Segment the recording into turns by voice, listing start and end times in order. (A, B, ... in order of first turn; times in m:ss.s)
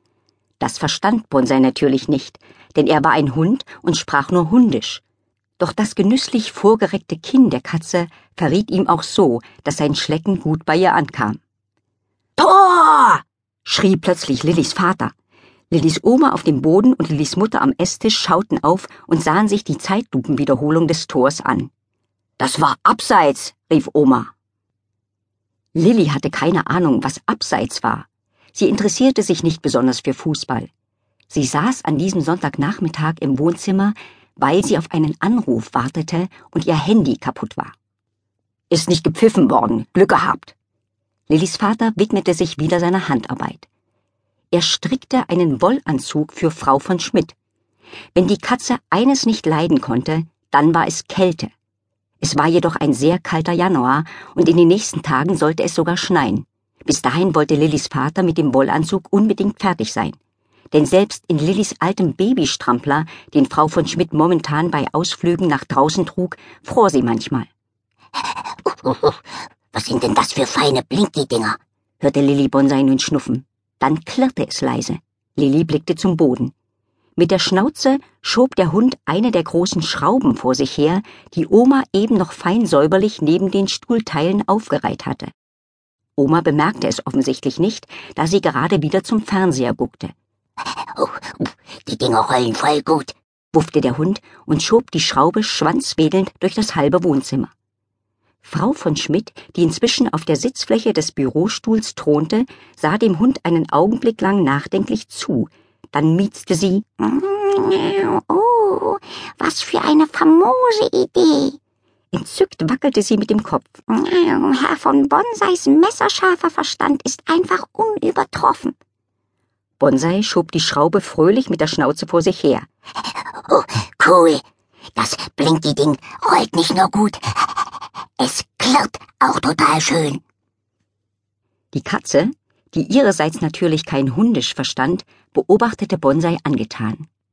0:00.6-0:05.0 A
0:05.6-0:11.4 A
0:12.4-0:15.1 A
0:15.7-0:21.7 A
0:22.4-0:24.3 A
0:25.7-0:30.7 A
0:31.3-0:37.7 A
0:38.7-0:40.5 A
0:41.3-0:43.7 A
0:44.5-0:47.3 A
0:48.1-0:51.5 A
0:52.2-1:00.2 A
1:00.7-1:07.5 A
1:08.6-1:09.2 B
1:09.7-1:11.6 B
1:12.0-1:16.5 A
1:17.2-1:25.3 A
1:26.2-1:30.1 A
1:31.0-1:33.1 B
1:33.5-1:37.5 A
1:38.4-1:46.8 A
1:47.0-1:51.6 C
1:52.1-1:53.8 A
1:53.9-1:58.7 C
1:59.8-2:02.7 A
2:03.4-2:04.4 B
2:05.0-2:10.2 B
2:11.7-2:17.1 A